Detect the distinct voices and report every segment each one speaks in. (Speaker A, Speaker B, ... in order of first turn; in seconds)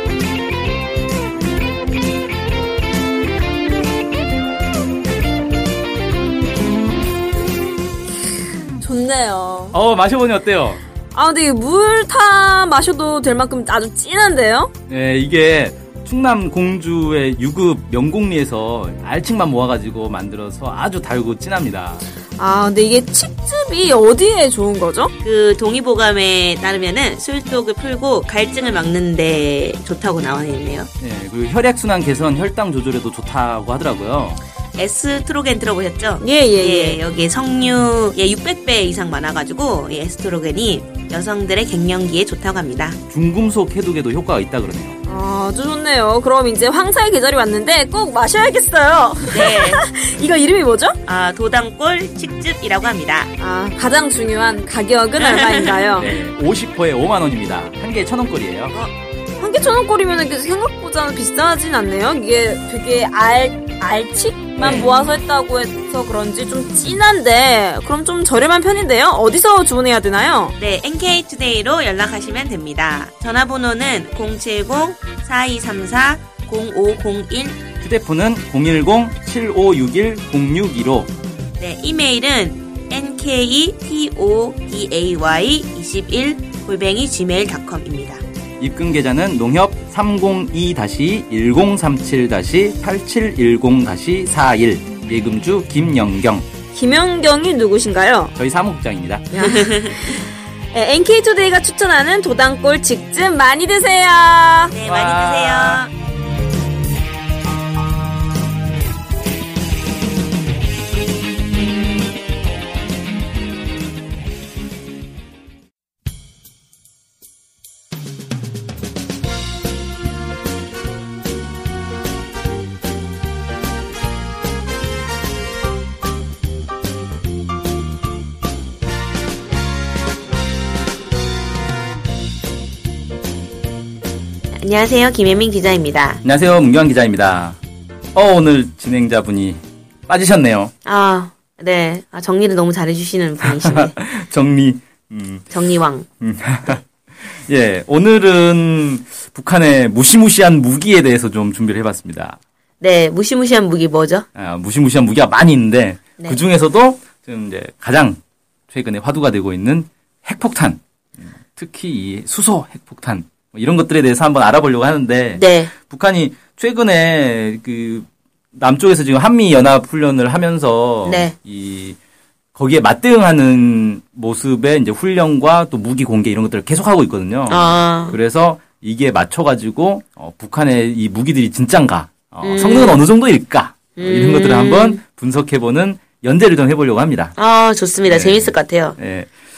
Speaker A: 8.7-9.8, 11.1-14.7, 22.4-25.1, 36.2-37.0, 45.0-51.0, 53.4-56.1, 59.4-70.5, 96.7-98.3, 99.3-104.7
Speaker B: 9.7-10.8, 14.9-22.1, 31.0-34.4, 43.1-45.0, 55.9-58.8, 64.6-64.9, 77.8-81.1, 88.6-96.5, 98.4-99.3, 104.8-105.9, 136.2-137.6, 138.1-140.7, 143.4-145.5, 146.2-152.4, 154.3-158.2, 158.7-160.8, 161.3-172.0, 172.6-187.3, 188.0-189.3
Speaker C: 25.2-30.9, 34.7-43.0, 49.3-49.8, 51.0-53.3, 55.2-55.8, 64.6-64.9, 70.6-77.6, 81.6-88.2, 99.4-100.0, 104.7-105.9, 134.6-136.2, 140.8-143.9, 145.5-146.1, 152.8-154.3, 165.3-165.7, 171.0-171.3, 177.5-178.2, 182.4-183.0, 184.0-185.0, 187.4-189.0